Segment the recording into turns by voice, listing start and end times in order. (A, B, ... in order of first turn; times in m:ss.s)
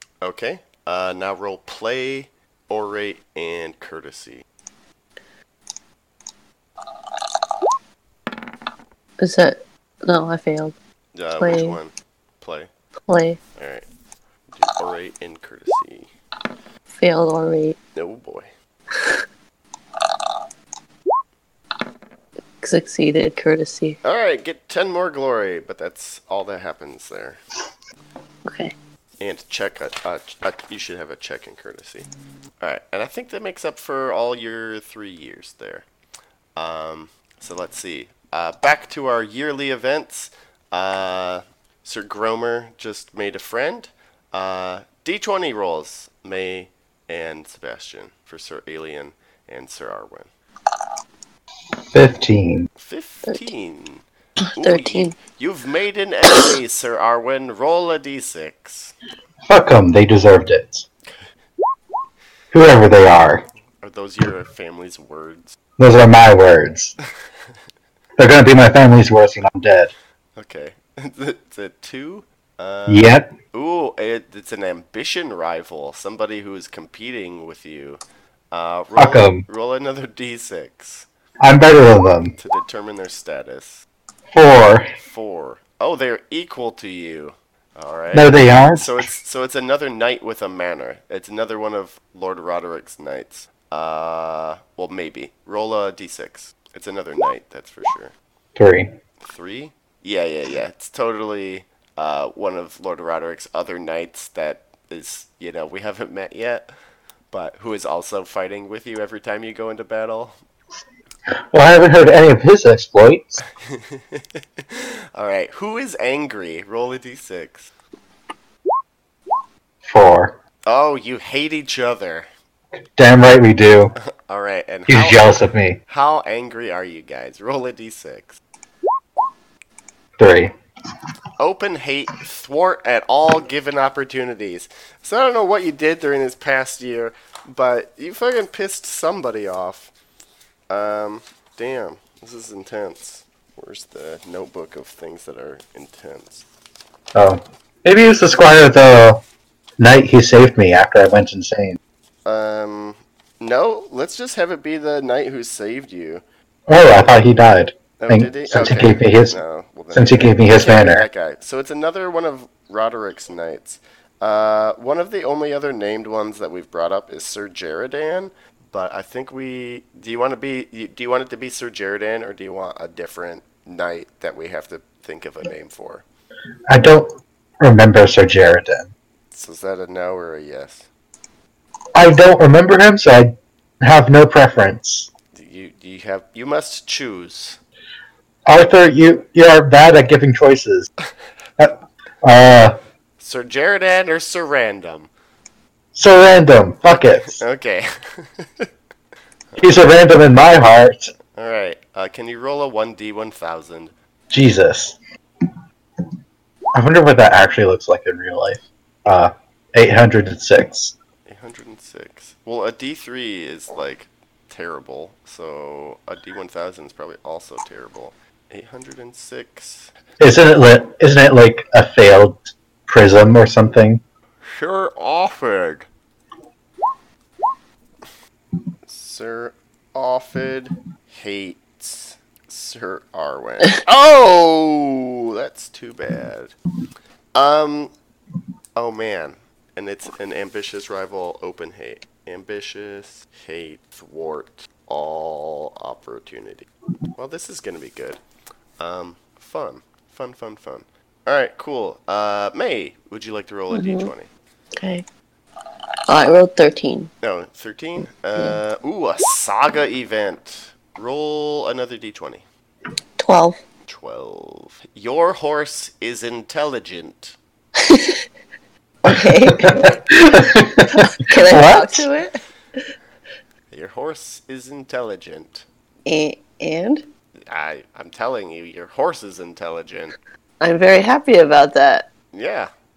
0:00.2-0:04.4 A
0:09.2-0:10.7 B
0:11.1-0:12.7 A
0:11.4-0:11.8 B
0:13.1-0:13.4 B
0:13.6-0:13.8 A
0:14.5-0:16.1 A
0:16.9-0:17.8 B
0:17.9-0:18.5 A
0:19.0-0:19.2 B
0:22.6-0:24.0 B
0:24.0-0:27.4 A
0:28.4-0:28.7 B
0:29.2-0:32.1 A
0:32.6-0:35.8 A
0:36.6-0:50.3 A
0:51.9-0:52.7 C
0:52.8-0:54.0 A
0:54.5-0:55.1 B
0:54.5-0:58.9 A
0:59.4-1:00.8 C
1:02.5-1:03.4 C
1:03.8-1:05.6 A
1:05.8-1:07.0 C
1:08.2-1:09.9 C
1:10.4-1:21.1 A
1:12.9-1:13.3 C
1:19.0-1:19.4 C
1:21.4-1:22.3 C
1:22.4-1:23.8 A
1:24.3-1:24.9 C
1:25.0-1:38.1 A
1:28.1-1:29.1 C
1:38.6-1:39.0 C
1:39.2-1:46.7 A
1:47.3-1:50.4 A
1:51.5-1:53.4 C
1:53.6-1:57.7 A
1:59.8-2:00.4 C
2:00.6-2:02.3 A
2:02.9-2:03.9 C
2:04.0-2:08.4 A
2:04.9-2:05.8 C
2:10.2-2:10.5 C
2:11.4-2:19.9 A
2:20.7-2:26.4 A
2:27.1-2:29.2 C
2:29.8-2:31.8 C
2:32.2-2:36.2 A
2:36.7-2:39.4 C
2:38.0-2:56.0 A
2:39.9-2:41.1 C
2:56.7-2:58.9 C
2:59.3-3:00.9 A
3:01.9-3:05.1 C
3:05.3-3:07.6 A
3:08.4-3:10.9 C
3:11.6-3:12.8 C
3:13.2-3:15.1 A
3:15.9-3:17.4 C
3:16.8-3:18.7 A
3:19.6-3:21.1 C
3:21.3-3:23.9 A
3:24.3-3:25.0 C
3:26.7-3:30.9 C
3:31.2-3:39.9 A
3:40.2-3:44.0 C
3:44.4-3:45.9 A
3:48.8-3:56.6 A
3:57.3-3:57.9 A
3:58.7-4:08.2 A
4:08.8-4:14.3 A
4:13.7-4:14.1 B
4:14.8-4:15.0 B
4:16.1-4:17.1 B
4:17.2-4:22.4 A
4:23.2-4:23.6 B
4:23.9-4:27.4 A
4:27.8-4:28.2 B
4:29.0-4:29.9 B
4:29.6-4:32.1 C
4:30.9-4:32.4 B
4:33.7-4:35.6 A
4:36.0-4:37.0 B
4:37.5-4:40.1 A
4:40.6-4:42.1 B
4:42.3-4:42.7 A